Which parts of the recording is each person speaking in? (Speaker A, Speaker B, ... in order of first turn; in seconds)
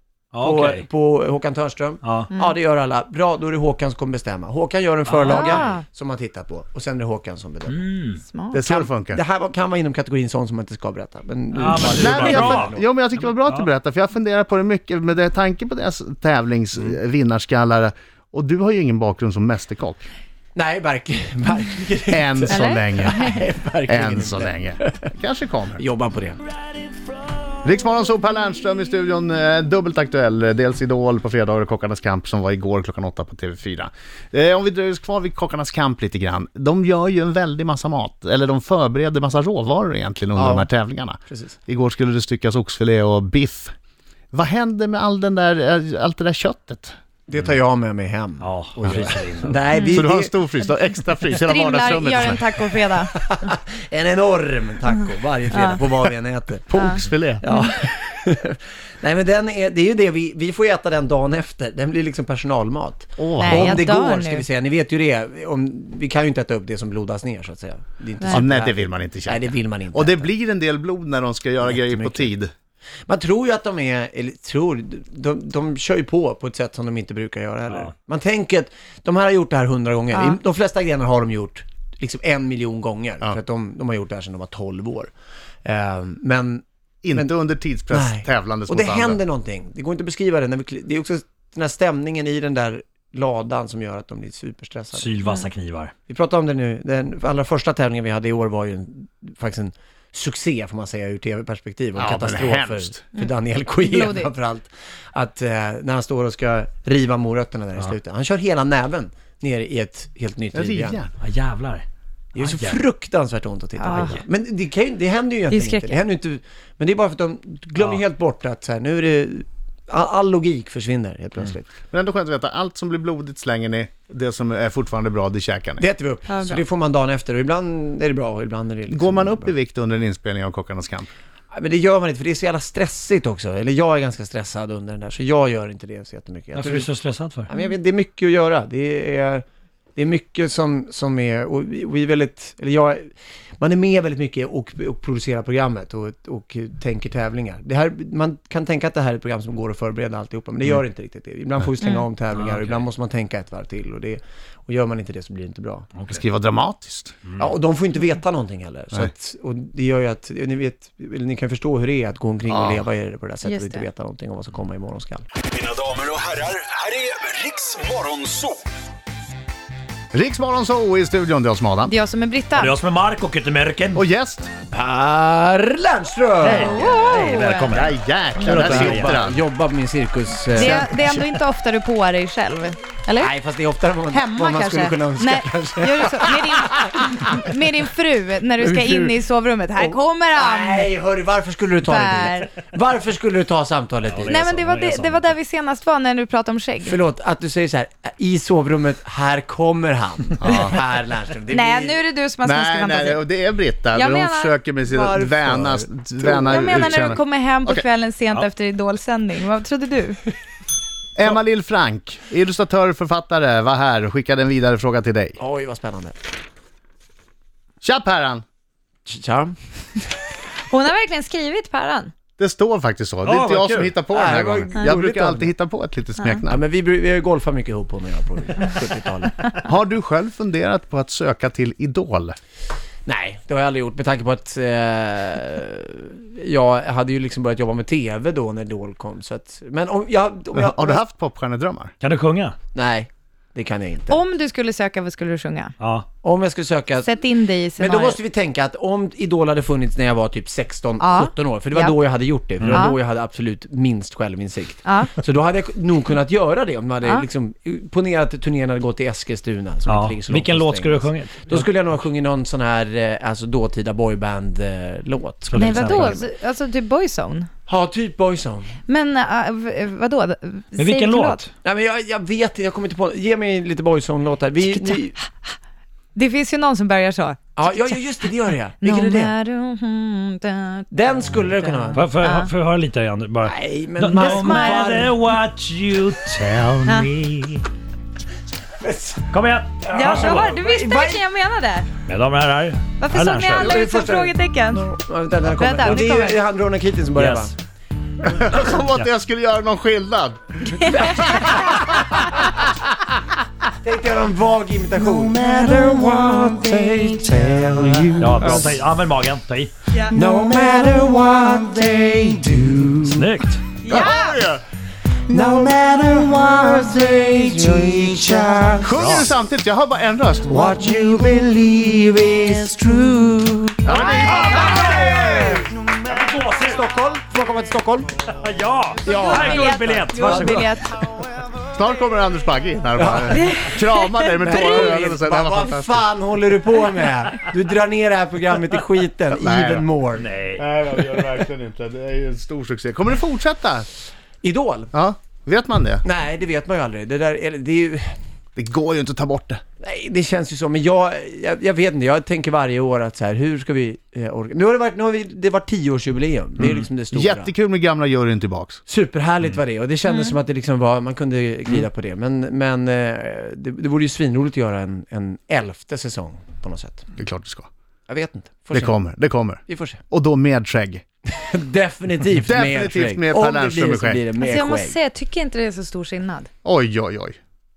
Speaker A: 0.3-0.8, 2.0-2.3, 5.1-5.7, 7.7-8.2, 11.5-13.7, 48.4-49.6, 94.9-95.9, 111.2-112.8, 136.6-137.5, 152.3-152.8, 156.0-156.2, 157.2-157.5, 172.6-174.0, 176.4-179.2, 194.0-195.3, 223.2-224.0, 242.0-242.6, 245.8-246.1, 259.9-261.7, 265.5-266.2, 270.8-271.5, 281.9-287.7, 289.3-290.6, 292.0-293.8, 297.1-297.5, 308.2-309.7, 313.1-313.7, 319.0-319.3, 323.9-326.8, 328.2-330.8, 340.1-340.6
Speaker B: 0.4-7.8, 8.7-12.8, 20.6-25.0, 25.8-26.4, 40.4-40.7, 41.3-41.5, 47.3-50.4, 53.0-56.7, 57.4-70.3, 71.7-72.3, 73.1-85.1, 85.7-86.6, 87.9-95.2, 96.1-111.0, 112.4-121.7, 125.8-129.5, 131.5-136.9, 137.5-139.4, 140.0-155.9, 157.4-165.2, 174.7-177.0, 178.4-181.1, 183.2-187.5, 188.6-189.2, 189.8-194.7, 196.8-202.0, 204.9-207.0, 215.4-216.2, 219.1-219.5, 224.1-225.5, 226.5-229.4, 233.1-241.0, 242.7-244.2, 246.2-247.1, 247.8-266.3, 267.7-268.8, 271.6-275.2, 277.6-279.3, 280.9-282.0, 283.4-285.1, 288.8-289.3, 289.9-291.2, 293.6-297.6, 301.0-302.0, 303.8-308.8, 310.1-313.0, 315.3-318.9, 320.5-323.1, 324.8-328.1, 329.1-330.0, 333.0-333.8, 334.4-340.3, 344.4-344.9, 346.0-348.2, 349.8-357.5, 358.9-367.1, 368.1-369.0, 369.6-370.0, 371.3-375.0
Speaker C: 2.3-2.6, 5.2-5.9, 8.2-8.6, 22.5-23.4, 49.7-50.0, 51.4-53.1, 55.5-55.9, 56.7-57.8, 63.4-64.5, 80.1-80.4, 103.1-104.3, 113.8-114.2, 115.5-116.0, 126.3-126.6, 151.8-152.1, 163.4-163.9, 171.8-172.8, 176.5-177.8, 180.4-183.3, 184.1-190.9, 191.8-192.5, 194.3-197.0, 201.5-203.3, 203.9-205.2, 206.3-210.2, 220.7-222.1, 244.1-245.7, 247.0-248.2, 251.0-253.0, 254.8-255.2, 257.0-257.3, 265.6-267.5, 268.9-271.4, 274.7-275.0, 276.1-282.5, 284.2-285.1, 289.9-291.9, 293.0-294.9, 295.5-296.4, 300.8-301.6, 309.9-310.3, 313.8-314.4, 323.9-325.6, 329.1-331.0, 333.3-334.9, 360.1-360.4, 374.4-376.5
Speaker D: 8.5-9.2, 11.9-20.1, 22.1-23.3, 23.9-25.8, 27.6-43.7, 44.3-47.0, 48.8-49.1, 49.9-52.5, 56.7-57.4, 63.2-63.9, 68.3-72.5, 87.0-89.2, 102.0-103.0, 110.5-111.1, 121.9-125.9, 128.9-131.1, 156.1-157.2, 162.5-162.8, 170.1-171.9, 173.9-174.5, 177.7-179.4, 200.4-200.7, 202.4-207.8, 211.2-215.4, 217.8-218.4, 222.4-226.6, 229.5-232.4, 240.5-241.9, 298.2-301.8, 313.9-314.6, 318.8-320.8, 323.8-325.6, 331.7-336.0, 339.4-339.9, 340.5-343.9, 344.9-346.0, 348.6-349.6, 357.1-358.8, 367.2-367.7, 368.7-371.0, 372.4-374.2, 376.6-377.4
Speaker E: 165.7-168.6, 306.2-306.8, 321.6-321.9